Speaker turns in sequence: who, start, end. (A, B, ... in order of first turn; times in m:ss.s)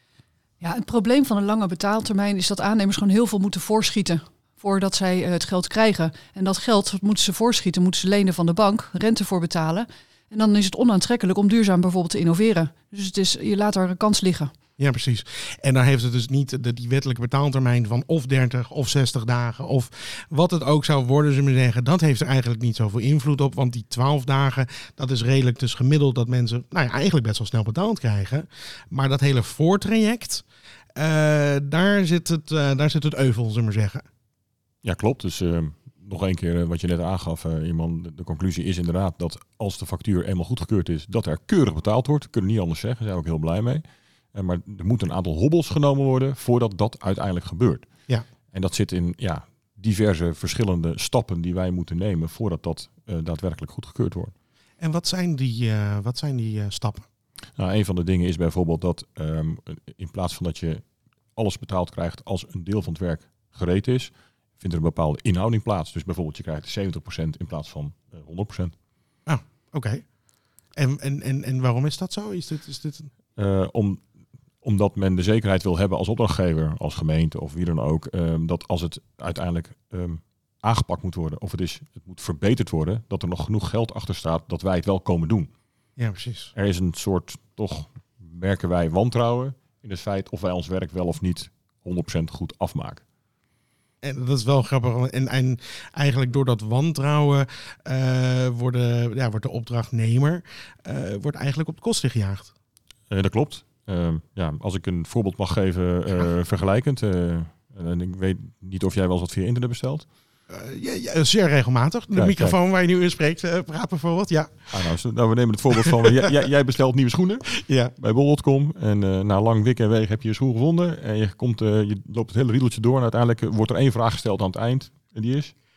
0:00.6-0:14.5 A
0:14.8-0:30.4 B
0:31.0-0:34.0 B
0:34.8-0:47.9 C
0:48.5-0:54.3 C
0:54.8-0:57.0 B
0:57.6-1:00.8 C
1:01.4-1:08.7 C
1:09.2-1:10.0 B
1:10.8-1:13.1 B
1:13.4-1:14.0 C
1:14.6-1:25.5 C
1:26.0-1:26.5 B
1:26.5-1:33.0 C
1:34.0-1:42.5 B
1:43.1-1:50.1 C
1:50.5-1:54.9 B
1:52.1-1:52.6 C
1:54.7-1:57.4 C
1:57.6-1:57.9 B
1:58.0-2:05.5 C